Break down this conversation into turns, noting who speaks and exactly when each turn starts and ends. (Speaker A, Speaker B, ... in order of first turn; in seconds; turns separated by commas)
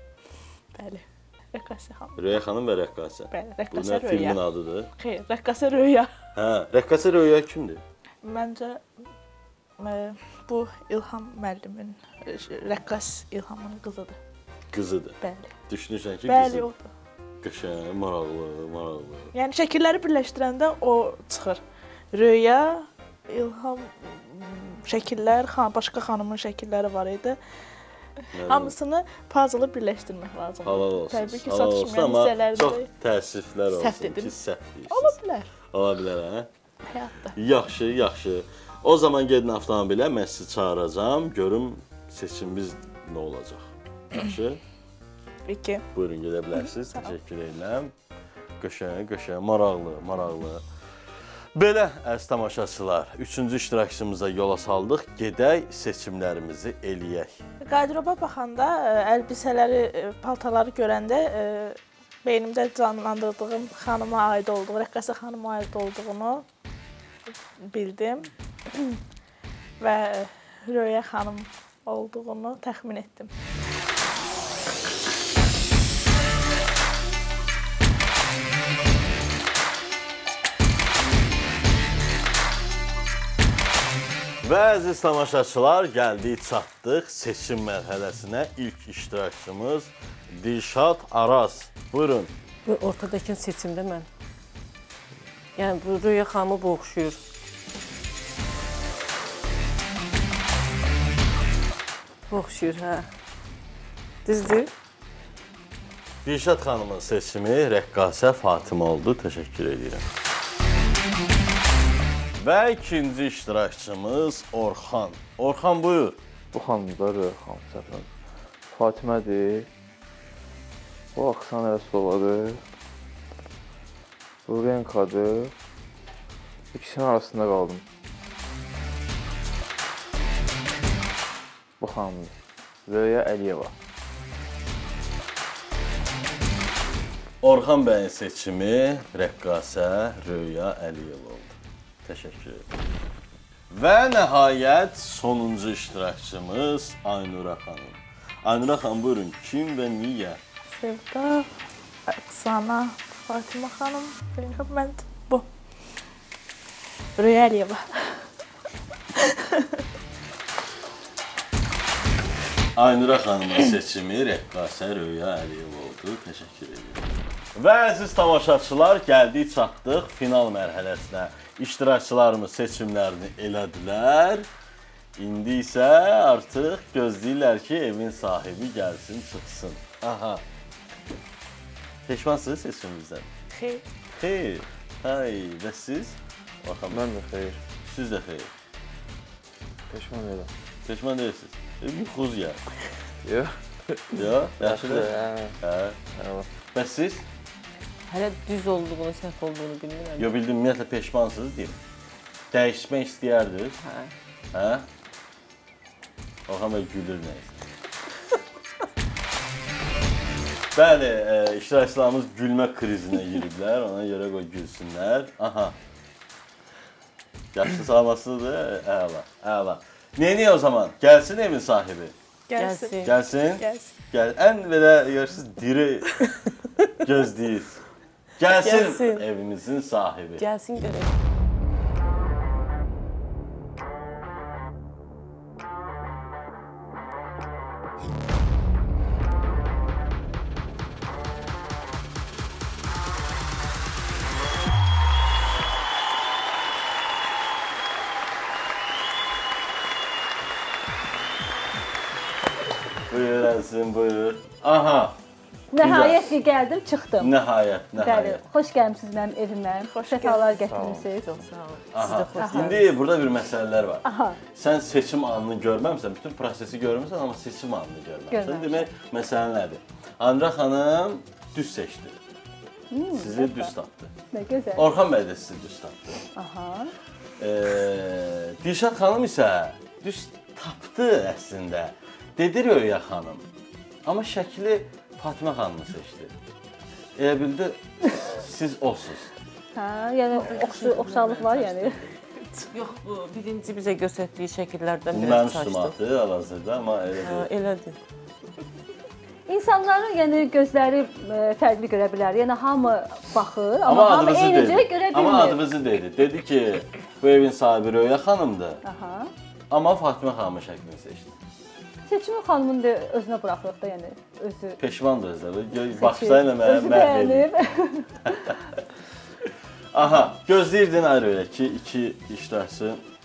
Speaker A: 0.7-2.2, Speaker B: 2.2-4.9, Speaker A: 3.3-4.4, Speaker A: 5.0-6.1, Speaker B: 6.3-7.8, Speaker A: 8.2-8.8, Speaker A: 9.8-14.2, Speaker B: 14.7-15.2, Speaker A: 15.2-15.5, Speaker B: 15.7-16.7, Speaker A: 16.2-16.9, Speaker B: 17.4-19.3, Speaker A: 19.3-21.6, Speaker A: 22.1-27.4, Speaker B: 28.3-28.7, Speaker A: 28.4-32.9, Speaker B: 30.6-35.2, Speaker A: 33.7-34.3, Speaker A: 34.9-35.5, Speaker B: 35.7-36.5, Speaker A: 36.9-37.4, Speaker B: 37.4-44.6, Speaker A: 45.5-45.8, Speaker B: 45.9-47.9, Speaker B: 48.6-50.6, Speaker B: 51.5-57.4, Speaker A: 57.6-66.5, Speaker A: 67.7-69.0, Speaker A: 69.8-73.3, Speaker B: 84.4-92.3, Speaker C: 92.7-94.1, Speaker C: 95.6-97.2, Speaker C: 102.3-103.1, Speaker C: 104.2-104.7, Speaker B: 106.2-110.0, Speaker B: 112.4-116.2, Speaker D: 116.5-118.1, Speaker D: 118.7-119.7, Speaker D: 121.1-122.6, Speaker D: 124.5-125.5, Speaker D: 126.7-127.8, Speaker D: 131.8-132.3, Speaker D: 132.8-133.7, Speaker B: 137.4-142.7, Speaker B: 143.7-150.4, Speaker A: 150.7-151.5, Speaker A: 152.1-155.5, Speaker A: 157.2-158.3, Speaker A: 159.2-159.8, Speaker B: 162.7-167.0, Speaker B: 167.5-174.5, Speaker B: 175.2-180.4, Speaker B: 182.1-183.3, Speaker A: 183.5-183.8, Speaker B: 184.1-187.0, Speaker D: 186.9-187.6, Speaker B: 187.8-188.5, Speaker D: 189.9-190.5, Speaker B: 190.8-192.6, Speaker D: 193.2-195.6, Speaker B: 194.1-196.0, Speaker D: 196.2-196.5, Speaker B: 196.7-197.2, Speaker C: 198.1-200.3, Speaker B: 200.2-201.8, Speaker B: 202.5-203.8, Speaker C: 203.8-204.1, Speaker B: 204.5-204.8, Speaker B: 206.5-207.6, Speaker B: 210.7-215.8, Speaker B: 217.5-222.1, Speaker A: 222.5-224.0, Speaker C: 222.6-223.2, Speaker B: 223.0-226.3, Speaker B: 227.0-227.8, Speaker B: 228.4-230.4, Speaker C: 228.5-229.2, Speaker C: 230.4-231.1, Speaker B: 253.1-255.2, Speaker E: 255.7-257.3, Speaker B: 255.8-256.3, Speaker B: 257.2-258.4, Speaker E: 258.0-261.3, Speaker A: 259.8-260.6, Speaker C: 260.7-262.9, Speaker B: 261.9-272.2, Speaker E: 262.4-262.8, Speaker E: 264.0-264.4, Speaker E: 268.3-268.9, Speaker E: 272.9-273.7, Speaker B: 273.1-274.1, Speaker E: 274.3-274.9, Speaker B: 274.7-276.2, Speaker E: 276.3-276.9, Speaker B: 277.4-283.4, Speaker B: 284.0-286.3, Speaker B: 287.1-289.3, Speaker E: 289.7-292.0, Speaker C: 290.4-295.9, Speaker B: 295.1-297.5, Speaker C: 297.2-298.0, Speaker E: 299.5-305.6, Speaker B: 303.8-308.8, Speaker E: 308.8-309.3, Speaker B: 309.7-311.3, Speaker E: 312.1-314.8, Speaker B: 314.8-317.5, Speaker E: 315.9-318.5, Speaker B: 319.9-323.0